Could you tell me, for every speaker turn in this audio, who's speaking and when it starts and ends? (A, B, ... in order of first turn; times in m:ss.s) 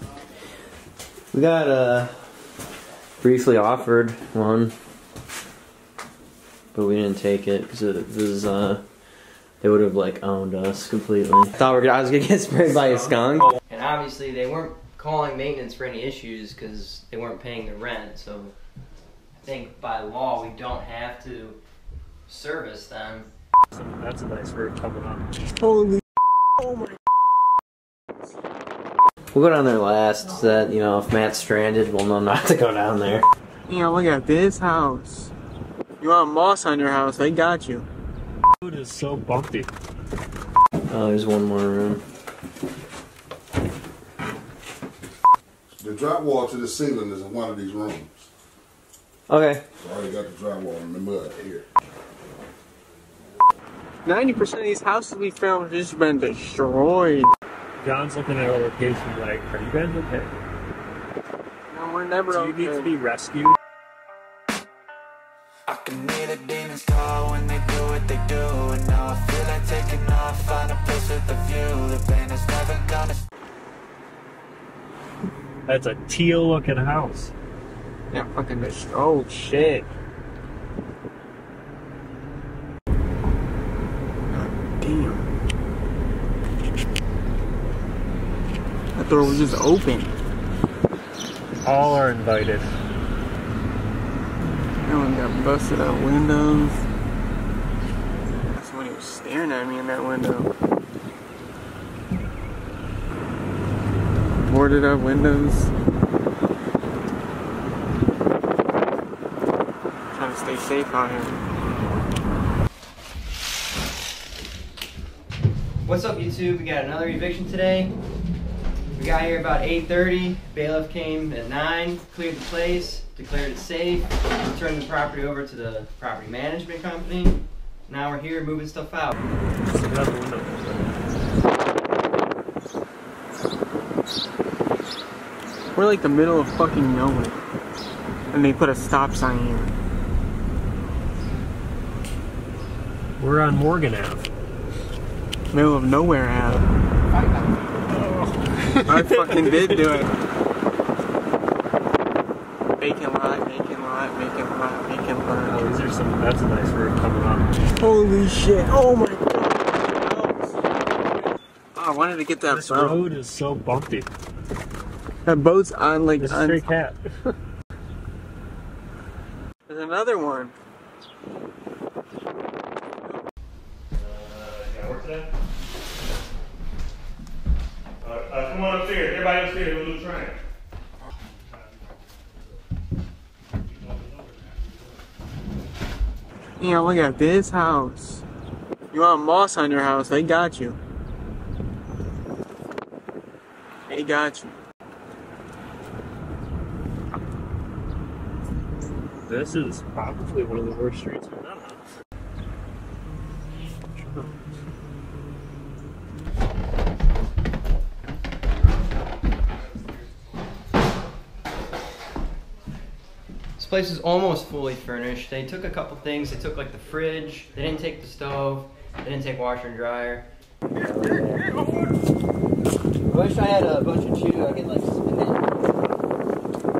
0:01.3-0:02.1 A
0:03.2-0:04.7 A
0:06.7-0:08.8 A
0:09.6-0:13.6 A
0:13.7-0:18.3 B
0:16.7-0:17.3 A
0:19.4-0:21.6 B
0:22.3-0:23.3 B
0:23.7-0:25.3 C
0:25.6-0:26.0 D
0:26.6-0:27.0 D
0:29.3-0:33.2 A
0:33.7-0:35.3 D
0:36.0-0:37.8 D
0:38.6-0:39.7 C
0:40.9-0:42.0 A
0:45.7-0:48.1 E
0:49.3-0:49.6 A
0:49.8-0:51.6 E
0:54.0-0:57.3 D
0:57.8-1:00.3 C
1:01.7-1:02.9 D
1:02.3-1:03.6 C
1:05.7-1:13.2 F
1:15.7-1:17.3 C
1:18.1-1:19.9 D
1:24.3-1:25.2 D
1:28.9-1:30.1 D
1:31.6-1:32.7 C
1:34.8-1:36.8 D
1:38.5-1:40.5 D
1:44.4-1:45.7 D
1:50.1-1:51.4 D
1:55.8-1:57.9 B
1:59.0-2:09.1 B
2:09.7-2:10.8 C
2:15.8-2:17.4 D
2:18.3-2:19.7 D
2:23.2-2:24.3 C
2:25.5-2:26.6 D
2:28.8-2:29.5 C
2:28.9-2:30.1 D
2:32.8-2:35.6 D
2:35.5-2:37.5 C
2:37.8-2:40.6 D
2:41.7-2:43.0 D
2:42.4-2:44.1 C
2:45.2-2:46.7 D
2:46.2-2:47.3 C
2:49.7-2:50.5 D
2:54.0-2:55.2 C
2:58.0-3:00.3 C
3:06.6-3:08.2 D
3:08.9-3:10.8 D
3:13.9-3:14.6 D
3:19.3-3:21.8 C
3:24.0-3:24.3 C
3:33.6-3:40.3 B
3:40.8-3:41.4 B
3:43.1-3:45.6 B